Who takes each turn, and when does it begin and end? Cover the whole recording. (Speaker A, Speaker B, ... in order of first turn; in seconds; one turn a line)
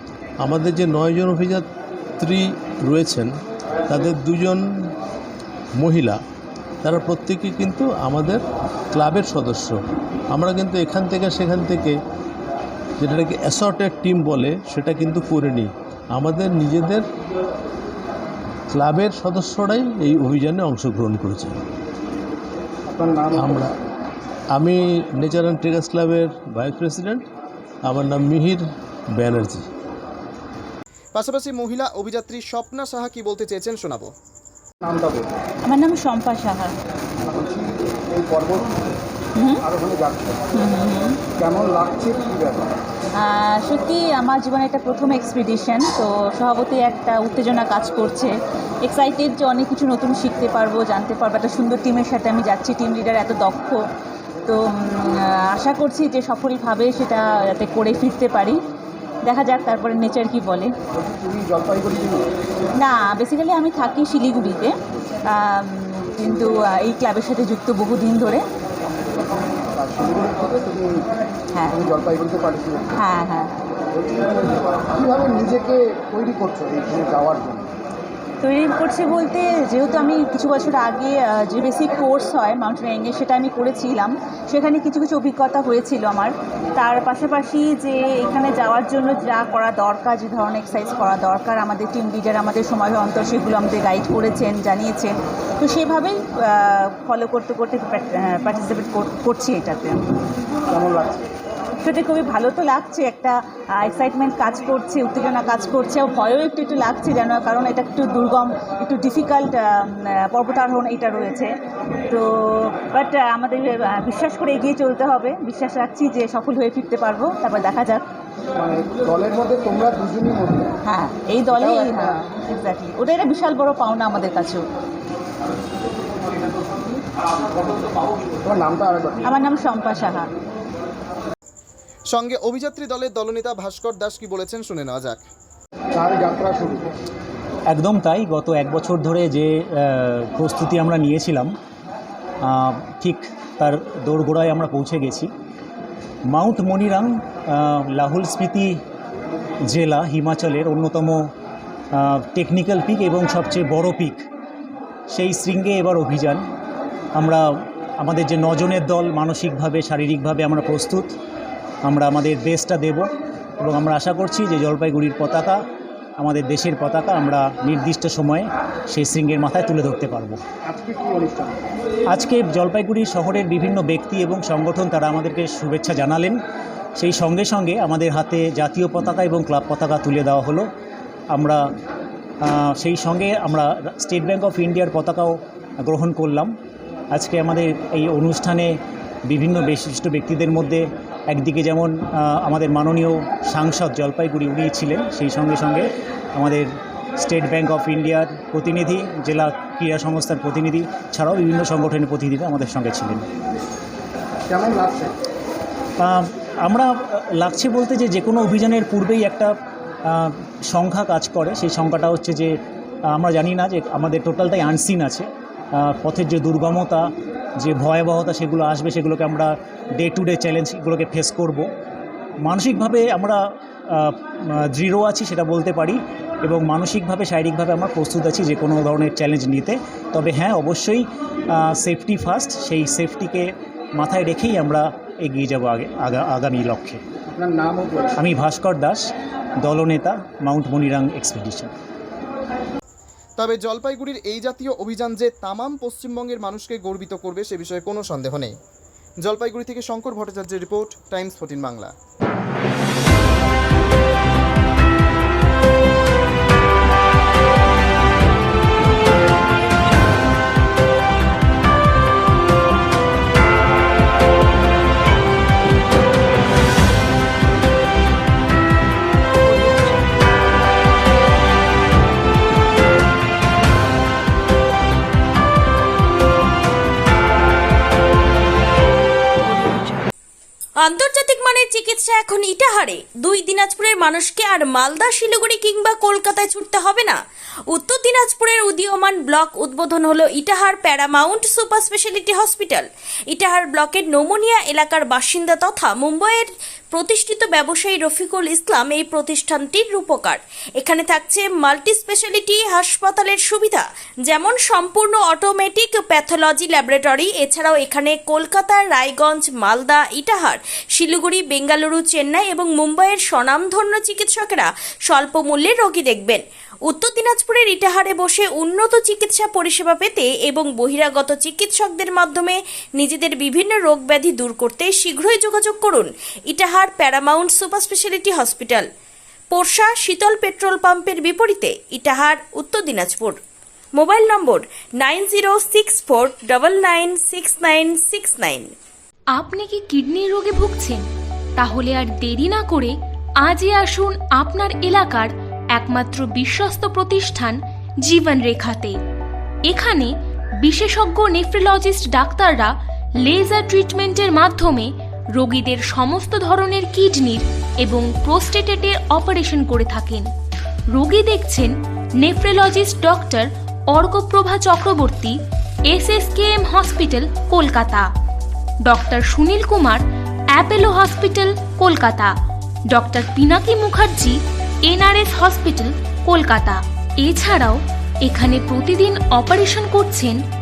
Speaker A: 0.4-1.7
Speaker A: 2.2-3.3
Speaker A: 3.9-4.6
Speaker A: 5.8-6.2
Speaker A: 6.8-9.8
Speaker A: 10.3-11.9
Speaker A: 13.0-17.0
Speaker A: 18.7-21.6
Speaker B: 22.9-23.6
Speaker A: 23.3-23.7
Speaker A: 24.5-27.2
Speaker A: 27.9-29.7
Speaker C: 31.1-34.1
Speaker B: 34.8-35.3
Speaker D: 35.7-36.7
Speaker B: 37.2-38.8
Speaker B: 39.6-40.4
Speaker D: 40.6-41.2
Speaker B: 41.3-42.8
Speaker D: 43.2-48.3
Speaker D: 48.9-53.8
Speaker D: 55.0-58.6
Speaker D: 59.3-60.7
Speaker B: 61.2-62.3
Speaker D: 62.9-64.7
Speaker D: 65.8-68.4
Speaker B: 69.7-71.1
Speaker B: 71.7-73.0
Speaker D: 73.0-73.3
Speaker B: 74.0-77.7
Speaker D: 78.4-99.9
Speaker B: 100.7-101.2
Speaker D: 101.8-111.4
Speaker D: 112.1-116.3
Speaker D: 117.5-117.9
Speaker B: 118.6-120.7
Speaker D: 121.2-124.6
Speaker B: 121.5-122.2
Speaker B: 128.4-129.2
Speaker D: 129.3-130.2
Speaker C: 132.1-135.2
Speaker B: 135.9-136.9
Speaker E: 137.7-141.5
Speaker E: 142.4-145.3
Speaker E: 146.3-148.8
Speaker E: 149.7-151.3
Speaker E: 151.9-154.2
Speaker E: 155.1-156.4
Speaker E: 157.2-161.1
Speaker E: 161.8-163.1
Speaker E: 163.6-165.6
Speaker E: 166.2-170.4
Speaker B: 170.7-171.6
Speaker E: 172.1-176.4
Speaker E: 177.0-180.7
Speaker E: 181.3-181.6
Speaker E: 182.4-186.5
Speaker E: 187.1-203.2
Speaker B: 204.5-205.1
Speaker E: 206.0-209.5
Speaker E: 210.1-217.1
Speaker E: 217.6-221.7
Speaker E: 222.4-237.0
Speaker B: 237.3-238.1
Speaker E: 238.2-239.1
Speaker E: 239.6-241.7
Speaker C: 243.4-248.5
Speaker C: 249.2-251.9
Speaker F: 280.8-287.2
Speaker F: 287.7-328.9
Speaker F: 329.5-333.4
Speaker F: 333.9-338.7
Speaker G: 339.5-341.0
Speaker G: 341.6-342.9
Speaker G: 343.4-348.9
Speaker G: 349.7-350.1
Speaker G: 350.6-352.7
Speaker G: 353.2-360.3
Speaker G: 360.9-365.3
Speaker G: 365.9-368.0
Speaker G: 368.9-370.0
Speaker G: 370.5-372.3
Speaker G: 372.9-374.3
Speaker G: 374.9-377.8
Speaker G: 378.3-380.3